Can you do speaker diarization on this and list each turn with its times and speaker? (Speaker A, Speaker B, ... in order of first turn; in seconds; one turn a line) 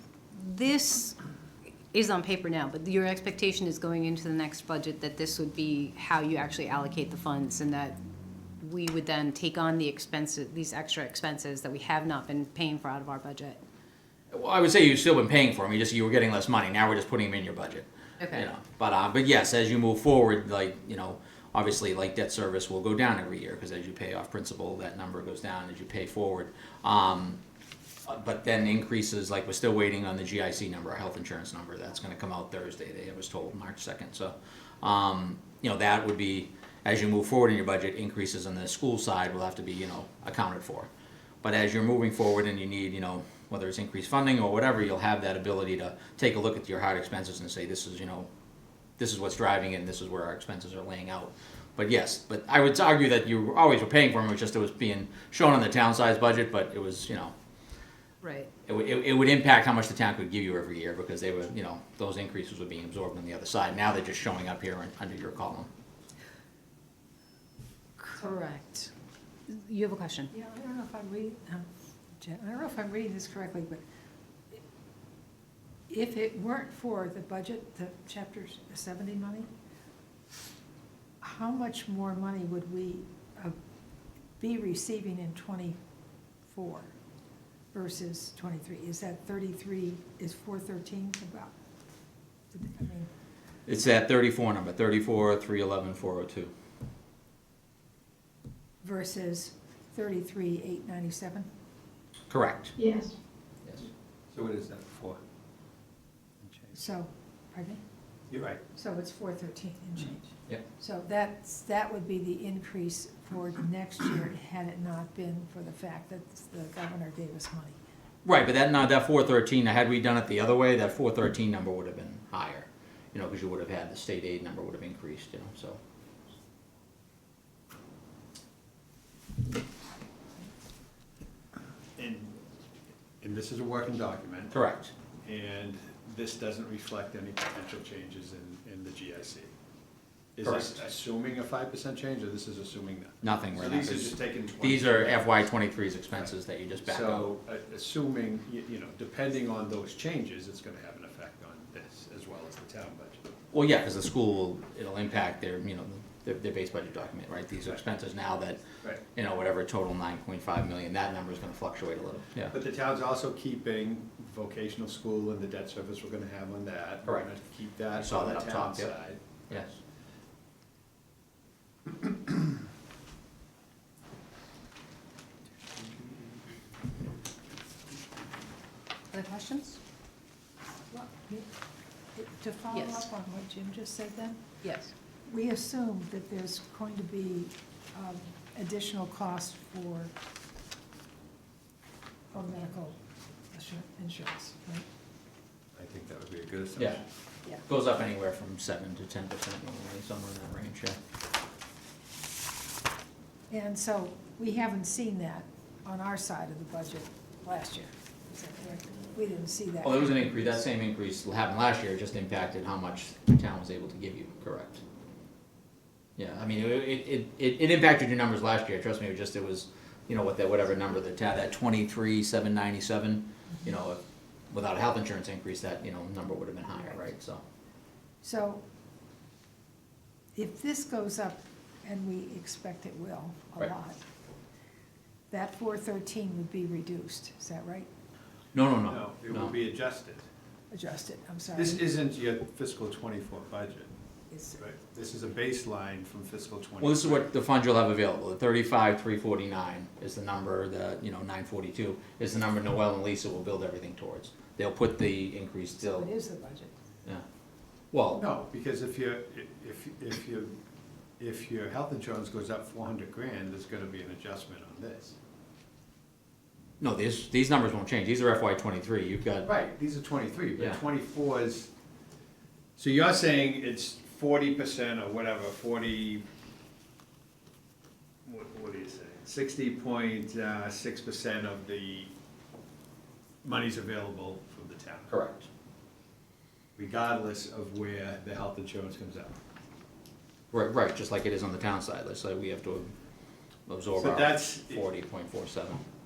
Speaker A: 0.3-1.2
Speaker A: 1.9-8.0
Speaker A: 8.6-13.6
Speaker B: 14.3-27.4
Speaker A: 18.2-18.5
Speaker B: 28.1-40.9
Speaker B: 41.4-48.3
Speaker B: 49.0-57.3
Speaker A: 58.2-58.5
Speaker B: 58.7-65.7
Speaker A: 68.0-68.9
Speaker C: 68.2-68.8
Speaker A: 69.5-70.3
Speaker C: 70.3-73.8
Speaker C: 75.9-79.5
Speaker C: 81.2-83.6
Speaker C: 84.4-85.8
Speaker C: 86.5-86.9
Speaker C: 87.7-91.5
Speaker C: 92.5-93.1
Speaker B: 93.7-96.5
Speaker C: 98.8-101.5
Speaker B: 102.3-102.8
Speaker D: 104.3-105.2
Speaker D: 106.4-106.8
Speaker C: 106.7-107.8
Speaker D: 108.3-108.6
Speaker C: 108.7-117.8
Speaker B: 118.2-125.8
Speaker D: 132.0-132.3
Speaker D: 133.2-134.6
Speaker B: 134.5-134.9
Speaker D: 135.2-139.5
Speaker D: 140.4-145.3
Speaker B: 140.4-140.8
Speaker B: 143.2-147.3
Speaker D: 146.8-153.3
Speaker B: 153.5-162.6
Speaker D: 162.5-169.6
Speaker B: 167.9-168.9
Speaker B: 169.5-169.8
Speaker A: 179.1-179.8
Speaker C: 180.9-181.5
Speaker C: 182.2-184.4
Speaker A: 182.7-183.1
Speaker A: 184.6-184.9
Speaker C: 185.3-190.1
Speaker C: 192.3-193.0
Speaker C: 193.5-194.9
Speaker D: 195.8-197.0
Speaker B: 196.8-197.0
Speaker B: 197.7-201.0
Speaker C: 203.5-210.5
Speaker B: 209.8-214.8
Speaker B: 216.2-227.4
Speaker C: 228.2-228.6
Speaker C: 230.3-234.0
Speaker C: 235.3-237.9
Speaker B: 238.5-239.6
Speaker D: 238.9-240.3
Speaker C: 240.7-241.8
Speaker D: 241.6-243.9
Speaker C: 244.3-244.6
Speaker D: 244.6-247.3
Speaker B: 246.8-256.1
Speaker C: 255.8-256.7
Speaker B: 257.9-258.2
Speaker D: 258.1-260.6
Speaker D: 261.2-265.2
Speaker B: 266.8-269.5
Speaker D: 269.4-271.7
Speaker D: 272.8-276.2
Speaker D: 278.2-282.1
Speaker D: 283.4-285.1
Speaker B: 285.1-285.5
Speaker D: 286.8-289.4
Speaker B: 290.5-292.9
Speaker B: 293.7-295.8
Speaker D: 293.9-294.8